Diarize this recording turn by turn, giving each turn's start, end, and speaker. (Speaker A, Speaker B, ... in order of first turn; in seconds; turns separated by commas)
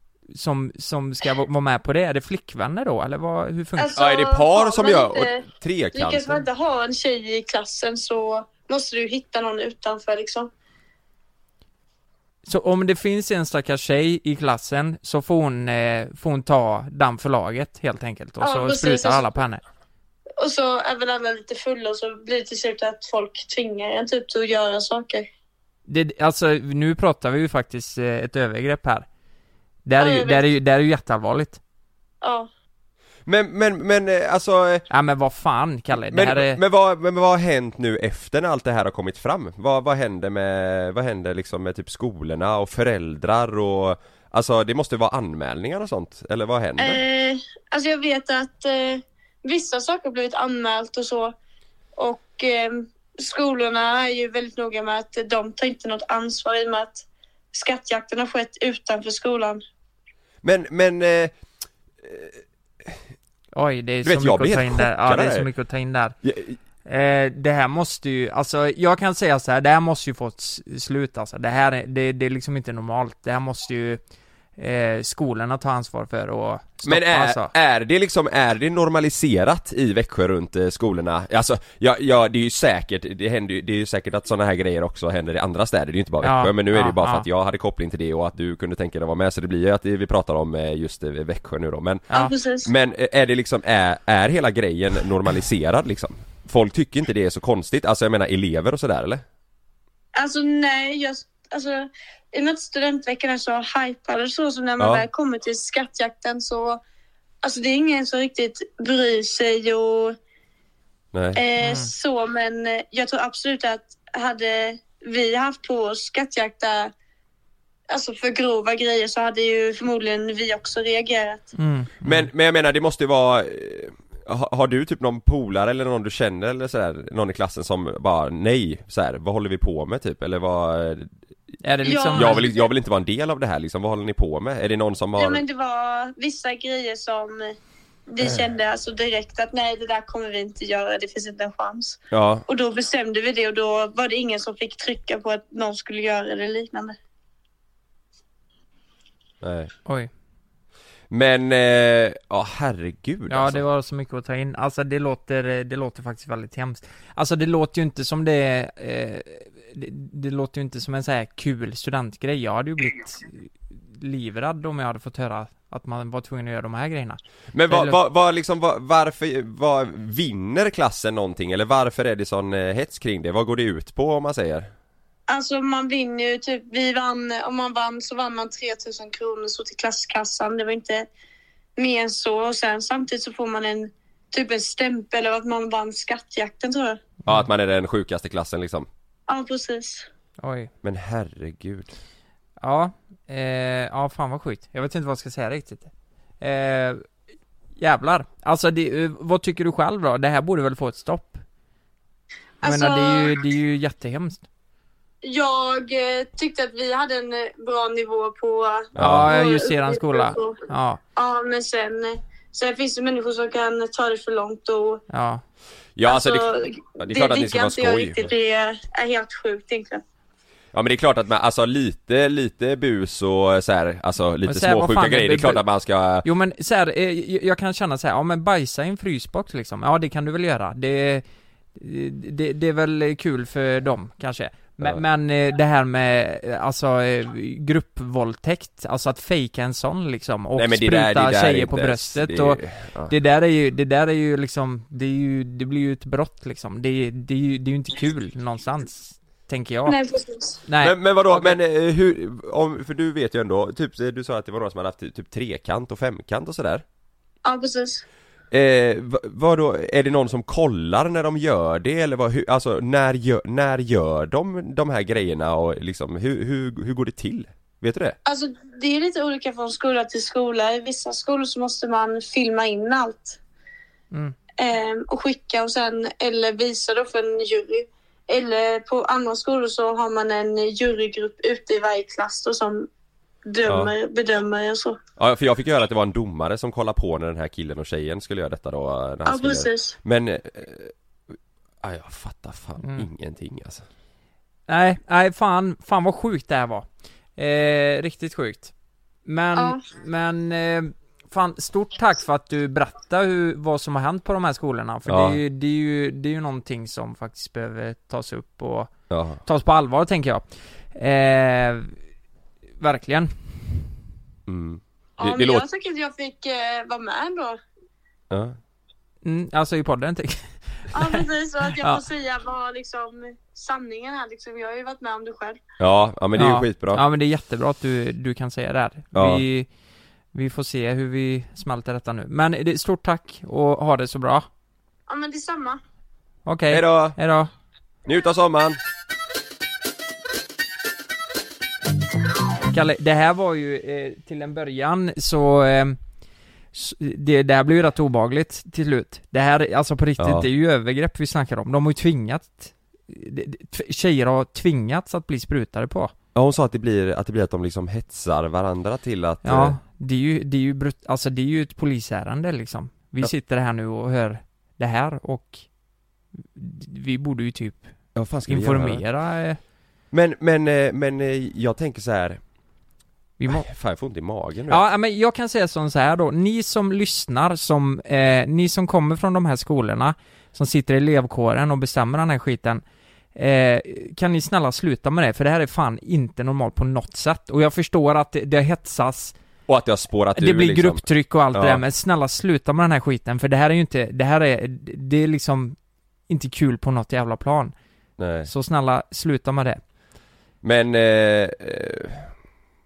Speaker A: 0.3-4.0, Speaker B: 3.8-10.5, Speaker C: 3.9-6.4, Speaker A: 12.5-19.6, Speaker B: 18.4-19.4, Speaker B: 20.4-25.3, Speaker A: 25.9-29.1, Speaker A: 29.9-31.6, Speaker B: 30.0-30.5, Speaker B: 32.2-32.5, Speaker C: 33.3-34.9, Speaker A: 34.9-36.6, Speaker C: 35.9-47.0, Speaker B: 46.8-51.4, Speaker B: 52.0-59.6, Speaker C: 60.4-61.3, Speaker C: 62.0-63.0, Speaker A: 63.5-66.2, Speaker C: 64.0-65.5, Speaker C: 66.2-66.6, Speaker A: 66.9-74.0, Speaker A: 74.6-77.5, Speaker C: 76.8-92.1, Speaker A: 86.2-87.3, Speaker B: 92.1-92.7, Speaker C: 92.6-99.2, Speaker B: 100.2-106.8, Speaker C: 104.8-105.1, Speaker B: 107.4-110.2, Speaker C: 111.1-111.4, Speaker B: 111.3-116.9, Speaker A: 111.6-111.9, Speaker B: 117.9-121.5, Speaker A: 121.6-122.3, Speaker C: 122.0-131.1, Speaker A: 131.6-132.5, Speaker B: 131.8-132.6, Speaker C: 132.1-135.4, Speaker B: 135.2-137.6, Speaker B: 138.1-147.0, Speaker C: 142.1-142.4, Speaker C: 149.4-149.7, Speaker C: 151.1-153.6, Speaker A: 153.3-168.0, Speaker C: 167.5-174.7, Speaker B: 175.3-181.1, Speaker B: 181.8-187.1, Speaker C: 187.2-188.9, Speaker B: 189.3-190.1, Speaker A: 190.4-190.7, Speaker C: 190.8-192.0, Speaker A: 192.6-195.9, Speaker A: 196.4-197.1, Speaker A: 197.8-201.4, Speaker B: 202.6-203.3, Speaker A: 202.6-204.4, Speaker B: 205.2-210.6, Speaker C: 209.0-209.3, Speaker A: 209.0-211.0, Speaker B: 211.2-215.0, Speaker A: 215.1-215.4, Speaker C: 216.0-216.5, Speaker B: 216.1-220.0, Speaker C: 217.0-218.3, Speaker C: 220.7-226.3, Speaker A: 224.5-225.6, Speaker A: 226.2-231.2, Speaker A: 231.8-250.0, Speaker C: 240.6-243.1, Speaker B: 249.9-250.6, Speaker A: 250.7-251.6, Speaker C: 250.8-256.8, Speaker B: 257.4-258.0, Speaker C: 258.5-268.2, Speaker B: 268.2-273.4, Speaker B: 274.6-282.9, Speaker B: 283.5-285.0, Speaker C: 283.7-283.9, Speaker C: 285.2-290.9, Speaker B: 289.3-290.0, Speaker C: 291.8-293.9, Speaker A: 292.8-293.1, Speaker A: 294.7-296.9, Speaker A: 297.4-298.7, Speaker A: 299.3-308.9, Speaker B: 299.6-299.8, Speaker C: 305.1-305.4, Speaker C: 309.1-309.4, Speaker A: 309.4-311.9, Speaker A: 312.8-313.3, Speaker C: 314.5-315.6, Speaker B: 315.2-317.6, Speaker C: 318.3-318.6, Speaker A: 319.2-322.0, Speaker B: 320.9-325.6, Speaker C: 325.8-327.0, Speaker A: 326.4-329.7, Speaker C: 329.1-329.4, Speaker A: 330.3-334.5, Speaker B: 335.1-335.8, Speaker A: 336.5-337.5, Speaker C: 336.7-337.2, Speaker C: 338.1-338.8, Speaker A: 342.7-346.0, Speaker A: 346.7-356.1, Speaker C: 350.2-350.5, Speaker C: 356.4-359.8, Speaker A: 359.4-365.6, Speaker A: 366.4-367.9, Speaker C: 368.1-369.1, Speaker A: 368.5-369.6, Speaker C: 370.1-372.4, Speaker A: 373.4-373.7, Speaker C: 373.5-374.9, Speaker A: 374.7-382.8, Speaker A: 383.4-389.4, Speaker C: 389.7-391.8, Speaker A: 390.4-395.8, Speaker A: 396.3-397.7, Speaker C: 398.2-398.5, Speaker A: 398.4-399.8, Speaker C: 400.6-402.3